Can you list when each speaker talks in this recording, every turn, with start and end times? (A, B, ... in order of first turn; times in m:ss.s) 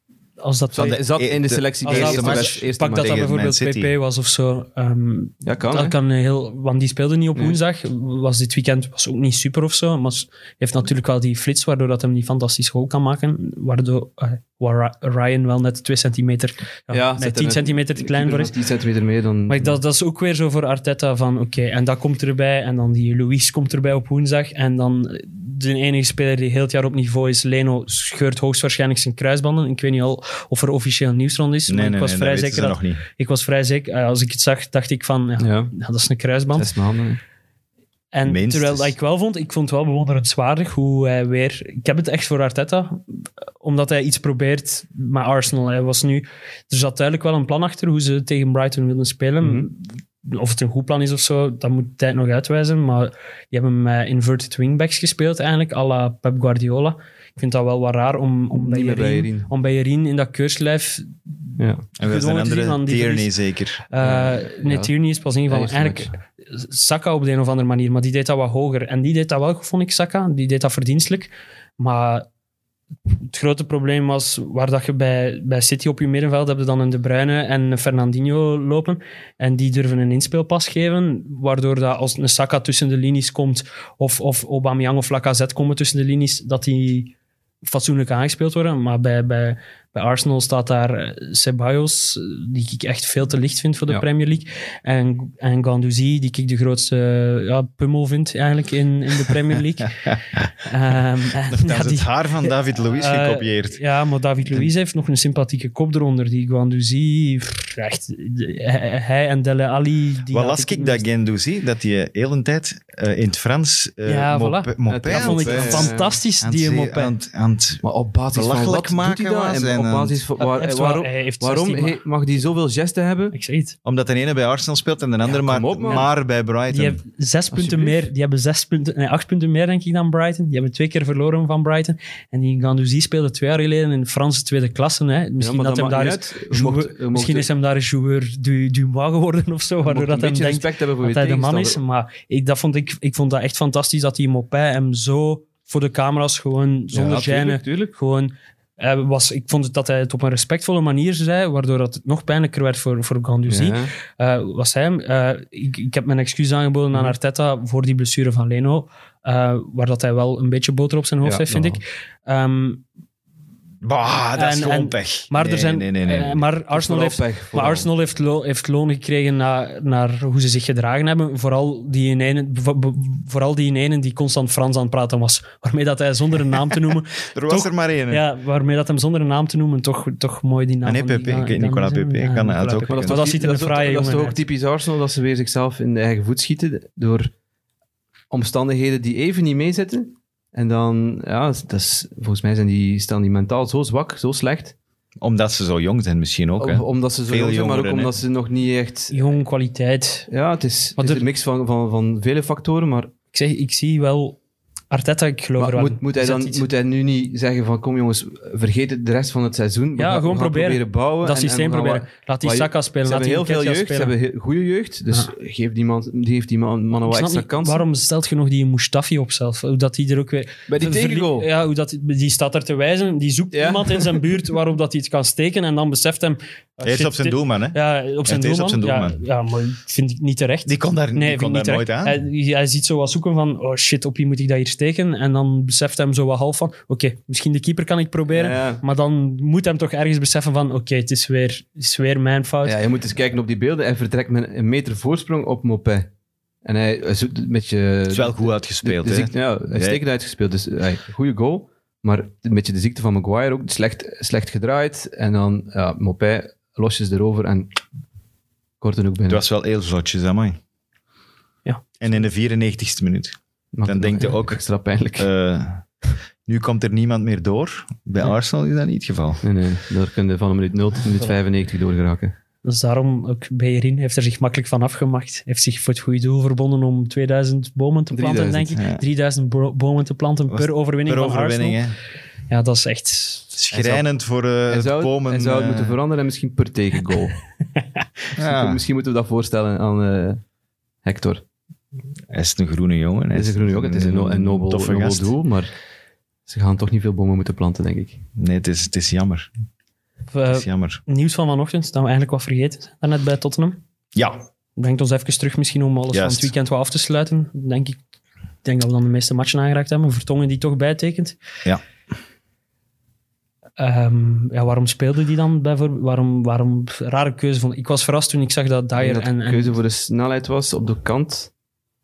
0:00.4-0:01.0 A
0:00.7-0:03.2 B
0:00.9-0:03.9 C
0:01.8-0:18.6 A
0:05.4-0:06.0 B
0:16.9-0:19.8 B
0:19.5-0:36.7 A
0:31.7-0:33.0 C
0:35.4-0:35.7 B
0:36.5-0:37.2 B
0:38.1-1:01.2 A
0:38.2-0:39.0 C
0:49.4-0:49.7 B
0:58.5-0:59.5 B
1:01.6-1:01.9 B
1:02.0-1:03.8 C
1:02.0-1:03.4 A
1:03.9-1:12.3 A
1:04.0-1:04.9 B
1:05.5-1:06.2 B
1:13.1-1:27.1 A
1:27.6-1:40.1 A
1:40.6-1:51.0 A
1:41.5-1:43.8 C
1:50.3-2:00.2 C
1:54.1-1:57.1 A
1:54.9-1:56.2 B
1:57.8-2:03.4 B
2:00.4-2:02.0 A
2:03.3-2:03.8 A
2:03.8-2:07.0 C
2:05.2-2:06.1 B
2:06.7-2:42.8 A
2:07.5-2:08.0 B
2:15.4-2:17.5 B
2:19.8-2:21.8 B
2:26.9-2:28.0 B
2:33.5-2:33.9 B
2:41.2-2:41.8 B
2:43.8-2:46.4 C
2:44.4-3:04.4 A
2:46.7-2:47.9 B
2:57.2-2:58.2 C
3:00.8-3:03.2 C
3:02.9-3:07.3 B
3:08.3-3:14.8 B
3:15.2-3:18.1 C
3:16.6-3:19.4 B
3:19.1-3:20.3 A
3:20.3-3:23.1 B
3:21.0-3:21.2 A
3:23.3-3:24.4 A
3:24.9-3:26.6 A
3:25.6-3:37.8 B
3:30.0-3:34.1 A
3:37.1-4:02.8 A
3:40.7-3:41.5 B
3:43.5-3:44.2 B
3:46.8-3:49.2 C
3:50.7-3:52.2 C
3:58.3-3:58.8 B
4:02.6-4:06.1 B
4:06.6-4:17.8 B
4:08.1-4:10.0 C
4:18.8-4:19.4 B
4:19.3-4:20.6 C
4:22.0-4:24.6 C
4:23.7-4:25.3 B
4:25.2-4:25.9 C
4:26.4-4:29.4 C
4:29.4-4:32.3 B
4:32.6-4:41.8 A
4:38.1-4:38.8 B
4:38.8-4:39.0 C
4:40.5-4:42.0 C
4:42.5-4:43.8 A
4:43.7-4:46.0 C
4:43.8-4:44.0 B
4:44.7-4:47.4 B
4:48.4-4:48.8 C
4:48.4-4:50.4 B
4:51.0-4:51.4 B
4:52.3-4:55.3 C
4:53.3-4:55.7 B
4:56.5-4:58.2 B
4:58.4-4:59.5 C
5:00.3-5:03.8 A
5:00.5-5:01.0 C
5:04.2-5:04.4 C
5:04.8-5:08.0 A
5:06.1-5:06.5 C
5:08.6-5:11.4 A
5:13.8-5:19.8 A
5:19.0-5:21.5 B